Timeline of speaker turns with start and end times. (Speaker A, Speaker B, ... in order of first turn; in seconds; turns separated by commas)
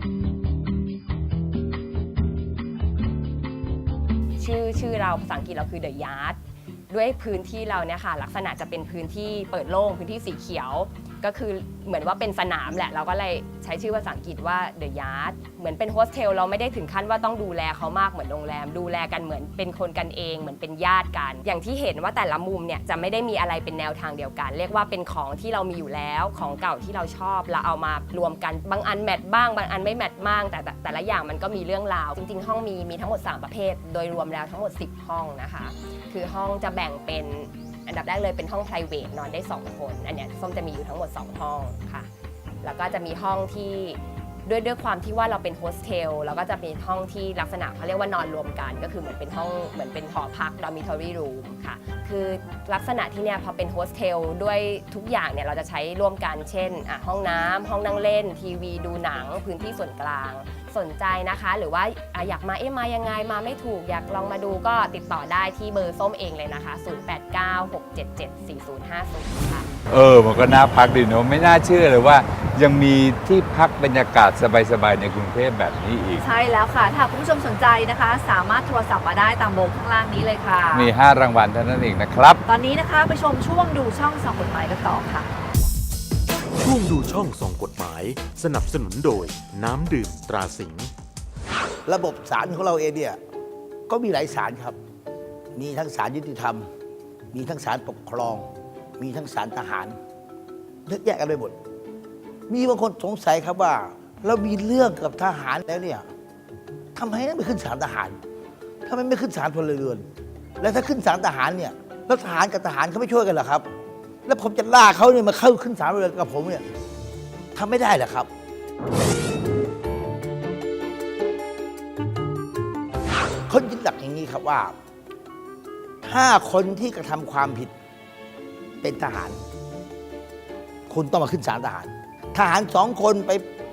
Speaker A: 4.4-6.4, Speaker A: 6.9-42.1, Speaker A: 42.6-69.7, Speaker B: 69.9-76.2, Speaker C: 76.2-80.9, Speaker B: 80.7-82.4, Speaker C: 82.5-85.3, Speaker D: 86.6-90.9, Speaker E: 91.8-93.2, Speaker E: 93.9-94.8, Speaker E: 95.5-96.7, Speaker E: 97.3-100.0, Speaker E: 100.8-101.5, Speaker E: 102.5-106.0, Speaker E: 106.9-108.2, Speaker E: 108.8-110.0, Speaker E: 110.6-113.6, Speaker E: 114.2-116.6, Speaker E: 117.5-118.3, Speaker E: 123.5-124.7, Speaker E: 126.0-127.7, Speaker E: 128.8-129.4, Speaker E: 130.9-133.4